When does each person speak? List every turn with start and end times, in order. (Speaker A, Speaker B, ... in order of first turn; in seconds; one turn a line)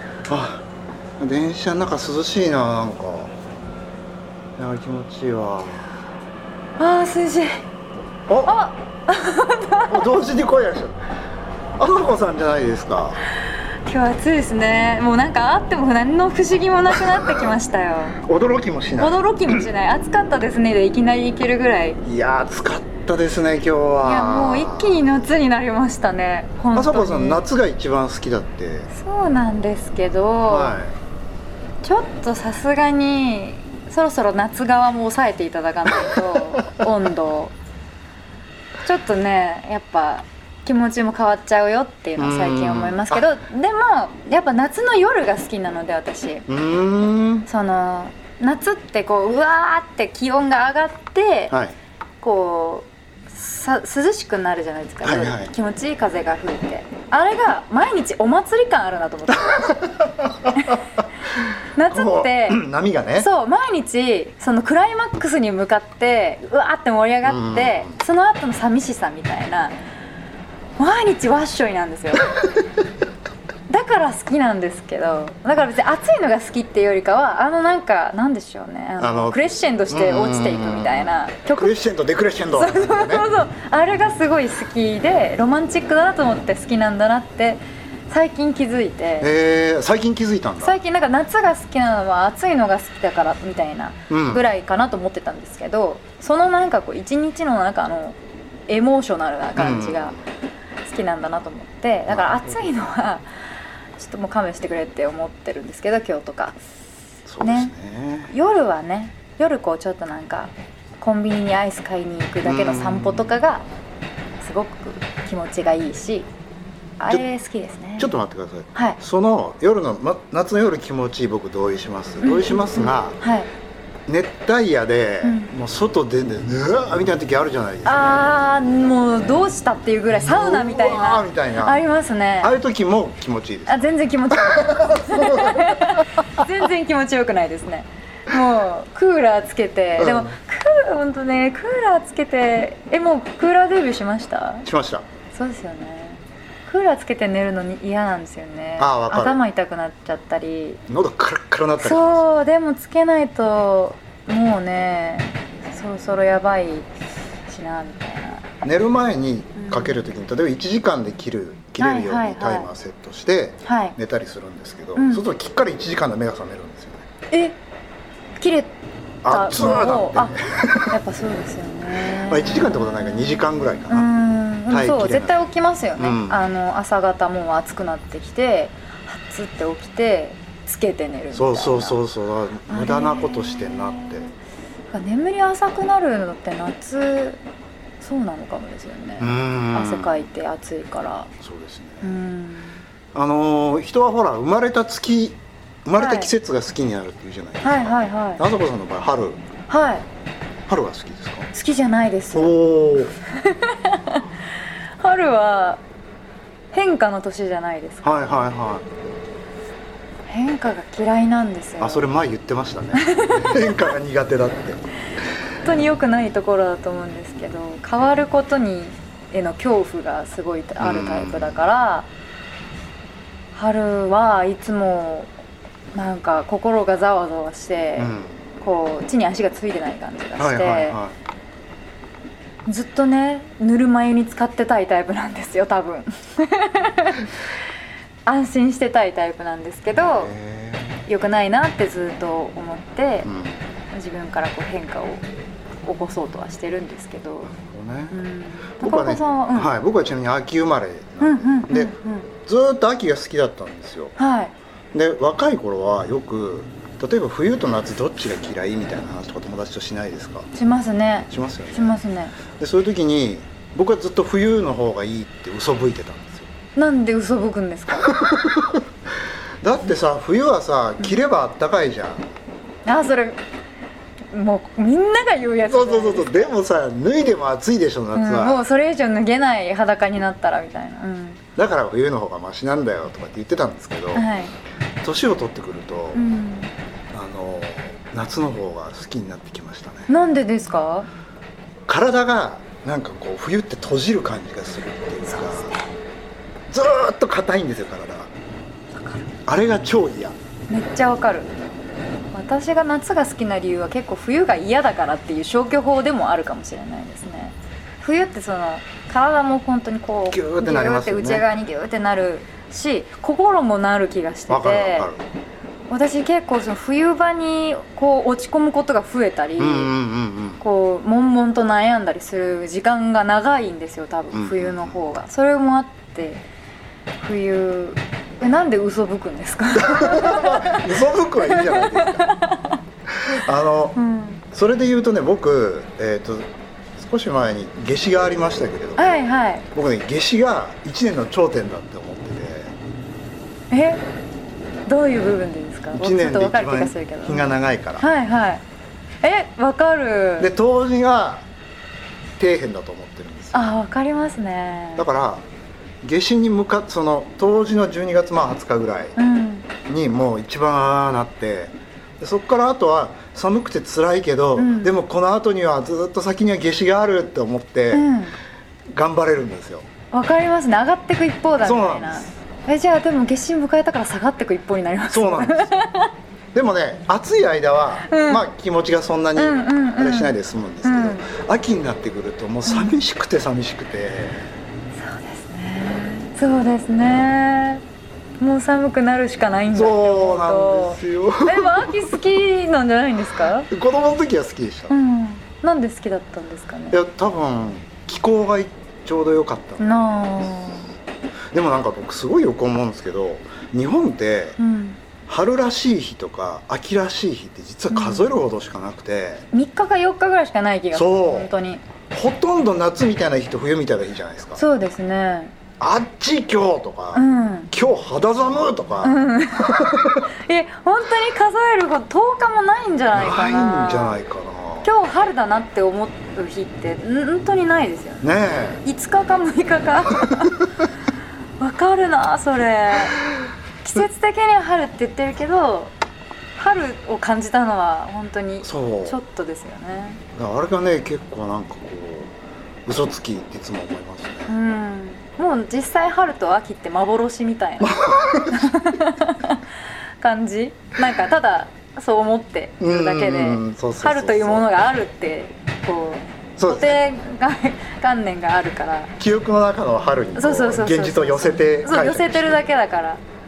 Speaker A: 0.3-0.6
Speaker A: 1.2-3.3
Speaker A: 4.6-5.9
Speaker B: 6.8-7.6
Speaker A: 8.3-8.5
Speaker B: 8.4-10.1
Speaker A: 9.9-11.0
Speaker A: 11.8-13.2
Speaker B: 13.8-18.2
Speaker A: 16.9-17.5
Speaker A: 18.2-19.6
Speaker B: 19.0-22.0
Speaker A: 22.0-25.1
Speaker B: 24.0-27.4
Speaker A: 26.7-28.9
Speaker B: 28.9-30.8
Speaker A: 30.5-30.9
Speaker B: 31.8-37.5
Speaker A: 36.1-36.7
Speaker B: 38.8-46.4
Speaker A: 42.2-43.3
Speaker A: 46.5-47.5
Speaker B: 47.5-51.5
Speaker A: 51.5-51.8
Speaker B: 52.2-59.8
Speaker A: 55.0-55.5
Speaker A: 59.3-63.3
Speaker B: 60.5-60.8
Speaker B: 61.8-62.6
Speaker B: 63.2-69.8
Speaker A: 67.2-68.0
Speaker B: 70.8-72.3
Speaker B: 73.7-81.7
Speaker A: 79.0-83.3
Speaker B: 82.5-89.3
Speaker A: 89.2-90.7
Speaker B: 90.6-98.2
Speaker A: 94.1-94.4
Speaker B: 98.7-100.2
Speaker A: 99.5-100.3
Speaker B: 100.8-103.3
Speaker A: 102.1-102.6
Speaker B: 104.0-106.6
Speaker A: 107.3-108.3
Speaker B: 107.4-107.7
Speaker B: 108.3-113.7
Speaker A: 112.4-113.4
Speaker B: 114.4-116.3
Speaker B: 117.0-118.1
Speaker A: 118.0-123.2
Speaker B: 122.2-123.5
Speaker A: 124.1-128.0
Speaker B: 125.2-125.5
Speaker B: 127.8-132.6
Speaker A: 130.1-131.8
Speaker A: 132.4-136.0
Speaker B: 133.7-144.7
Speaker A: 140.0-140.3
Speaker A: 144.7-145.1
Speaker B: 145.3-150.8
Speaker A: 148.8-149.4
Speaker A: 150.9-152.3
Speaker B: 151.8-156.9
Speaker B: 157.5-158.4
Speaker A: 158.6-167.1
Speaker B: 159.6-160.0
Speaker B: 161.8-162.7
Speaker B: 163.7-164.0
Speaker B: 165.0-165.2
Speaker B: 167.3-167.6
Speaker B: 168.4-168.7
Speaker A: 169.2-171.0
Speaker B: 169.3-170.4
Speaker B: 170.9-182.0
Speaker A: 172.0-174.1
Speaker A: 174.7-175.3
Speaker A: 176.0-176.4
Speaker A: 181.3-184.3
Speaker B: 182.7-184.3
Speaker B: 184.9-187.4
Speaker B: 188.0-191.3
Speaker A: 189.2-190.3
Speaker A: 191.4-192.2
Speaker B: 192.0-192.8
Speaker A: 193.1-199.4
Speaker B: 196.0-196.3
Speaker B: 197.6-198.4
Speaker B: 199.7-200.0
Speaker A: 200.7-201.5
Speaker B: 201.5-202.5
Speaker A: 202.3-203.1
Speaker B: 203.3-204.2
Speaker B: 205.0-205.8
Speaker B: 206.7-208.1
Speaker A: 208.0-208.9
Speaker B: 210.3-212.1
Speaker A: 211.8-214.8
Speaker B: 212.9-213.5
Speaker B: 215.6-222.1
Speaker A: 220.8-221.7
Speaker B: 223.5-225.3
Speaker B: 225.9-231.0
Speaker A: 228.0-228.5
Speaker A: 230.4-231.2
Speaker B: 232.7-237.3
Speaker B: 238.3-240.3
Speaker A: 239.9-241.1
Speaker B: 241.1-243.3
Speaker A: 243.2-243.6
Speaker B: 243.9-245.2
Speaker B: 245.8-247.5
Speaker A: 247.4-248.2
Speaker B: 248.1-249.7
Speaker A: 248.8-254.2
Speaker B: 251.2-252.3
Speaker B: 254.2-254.5
Speaker A: 254.9-260.5
Speaker B: 260.5-262.4
Speaker A: 261.3-262.0
Speaker A: 262.6-266.5
Speaker B: 266.8-268.1
Speaker A: 268.0-268.8
Speaker A: 269.6-272.2
Speaker B: 272.9-273.4
Speaker B: 274.3-276.5
Speaker A: 275.7-278.6
Speaker B: 278.1-281.4
Speaker A: 281.6-284.3
Speaker B: 284.1-284.5
Speaker A: 285.0-286.2
Speaker B: 286.1-286.7
Speaker A: 287.1-290.1
Speaker B: 290.1-291.1
Speaker A: 291.9-295.8
Speaker B: 295.2-295.9
Speaker A: 296.7-298.3
Speaker B: 299.0-299.2
Speaker A: 299.5-300.4
Speaker B: 300.7-301.5
Speaker B: 302.3-315.1
Speaker A: 310.3-311.5
Speaker A: 314.5-315.2
Speaker B: 315.9-319.9
Speaker A: 319.6-320.6
Speaker B: 320.6-326.4
Speaker A: 324.3-325.0
Speaker B: 327.2-332.8
Speaker A: 329.8-332.3
Speaker A: 333.2-334.0
Speaker B: 334.0-334.4
Speaker A: 334.5-342.8
Speaker B: 339.0-339.6
Speaker B: 343.7-344.0
Speaker B: 344.9-348.6
Speaker A: 345.9-348.0
Speaker B: 349.2-350.5
Speaker A: 350.4-351.5
Speaker A: 352.4-353.8
Speaker B: 353.5-355.0
Speaker A: 355.0-355.4
Speaker A: 356.0-359.1
Speaker B: 359.2-359.7
Speaker A: 359.9-368.1
Speaker B: 364.6-364.9
Speaker B: 367.9-368.3
Speaker A: 368.9-369.9
Speaker B: 370.1-376.1
Speaker A: 371.6-372.3
Speaker A: 375.1-375.8
Speaker A: 376.5-384.5
Speaker B: 378.1-378.4
Speaker B: 379.4-381.2
Speaker B: 382.6-383.0
Speaker B: 385.0-387.8
Speaker B: 388.4-393.7
Speaker A: 389.7-392.2
Speaker A: 393.5-394.9
Speaker B: 394.9-397.0
Speaker A: 396.9-400.6
Speaker B: 399.8-400.9
Speaker A: 401.5-404.6
Speaker B: 404.6-405.0
Speaker A: 405.3-409.5
Speaker B: 407.9-408.4
Speaker B: 409.5-411.9
Speaker A: 410.9-411.5
Speaker A: 412.1-414.6
Speaker B: 414.6-415.6
Speaker A: 415.8-420.2
Speaker B: 417.1-417.7
Speaker B: 419.0-424.2
Speaker A: 423.1-424.9
Speaker B: 424.8-428.3
Speaker A: 428.2-428.8
Speaker B: 428.8-430.6
Speaker B: 431.6-433.2
Speaker B: 433.8-435.9
Speaker B: 436.6-440.2
Speaker A: 438.6-439.2
Speaker A: 440.4-442.3
Speaker A: 442.9-444.5
Speaker B: 444.5-449.6
Speaker A: 447.8-448.8
Speaker B: 450.2-459.1
Speaker A: 452.8-454.7
Speaker A: 456.6-457.0
Speaker A: 459.2-462.7
Speaker B: 460.4-463.2